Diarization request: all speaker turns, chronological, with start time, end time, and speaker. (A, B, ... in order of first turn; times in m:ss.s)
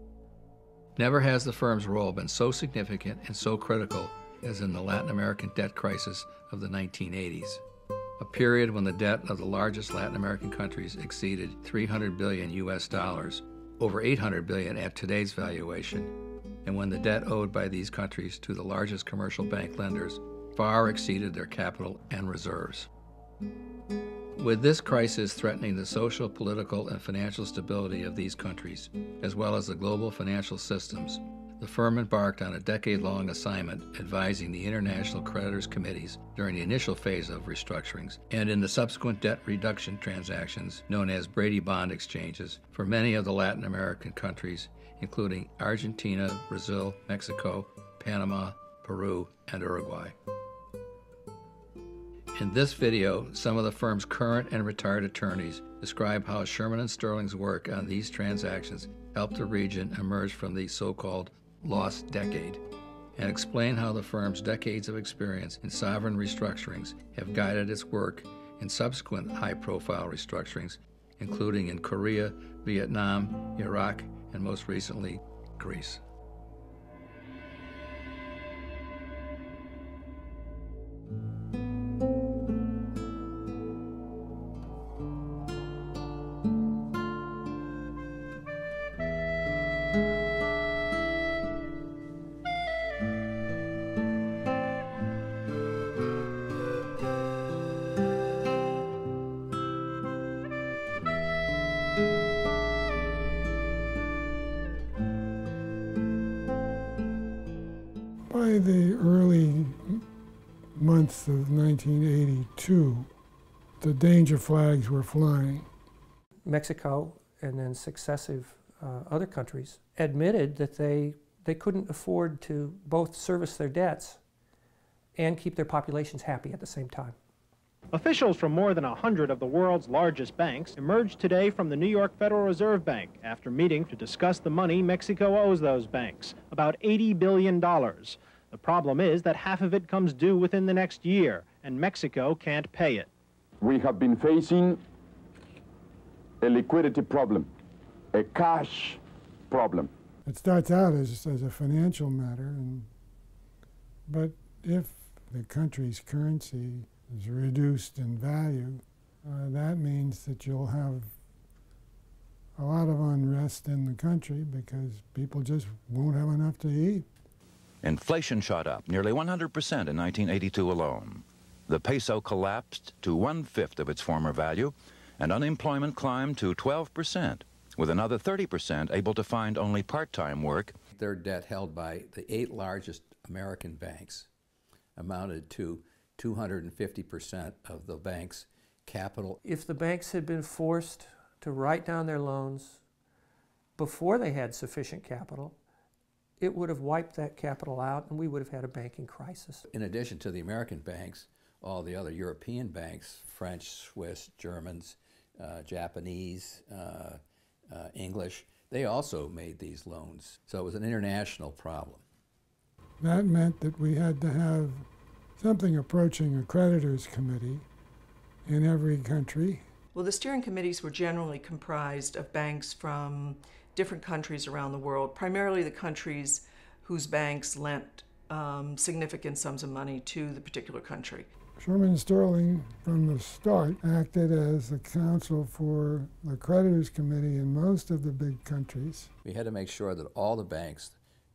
0:01.0-0:07.6 A
0:08.2-0:22.9 A
0:24.3-0:50.2 A
0:52.3-1:02.6 A
1:03.2-1:16.0 A
1:48.3-1:50.0 B
1:50.8-1:53.1 B
1:53.8-1:55.7 B
1:56.4-2:04.2 C
2:05.2-2:07.2 C
2:07.9-2:23.1 D
2:23.6-2:24.8 E
2:26.4-2:27.5 E
2:28.2-2:29.0 E
2:29.5-2:29.9 E
2:30.2-2:32.9 B
2:34.1-2:41.2 B
2:42.6-2:47.1 B
2:47.8-3:00.7 F
3:00.9-3:04.3 A
3:05.0-3:09.4 A
3:09.4-3:12.8 C
3:13.8-3:15.6 C
3:16.4-3:19.6 C
3:19.7-3:32.0 A
3:33.0-3:37.6 B
3:38.4-3:39.6 B
3:39.9-3:51.3 G
3:51.6-3:59.1 B
3:59.2-4:01.0 A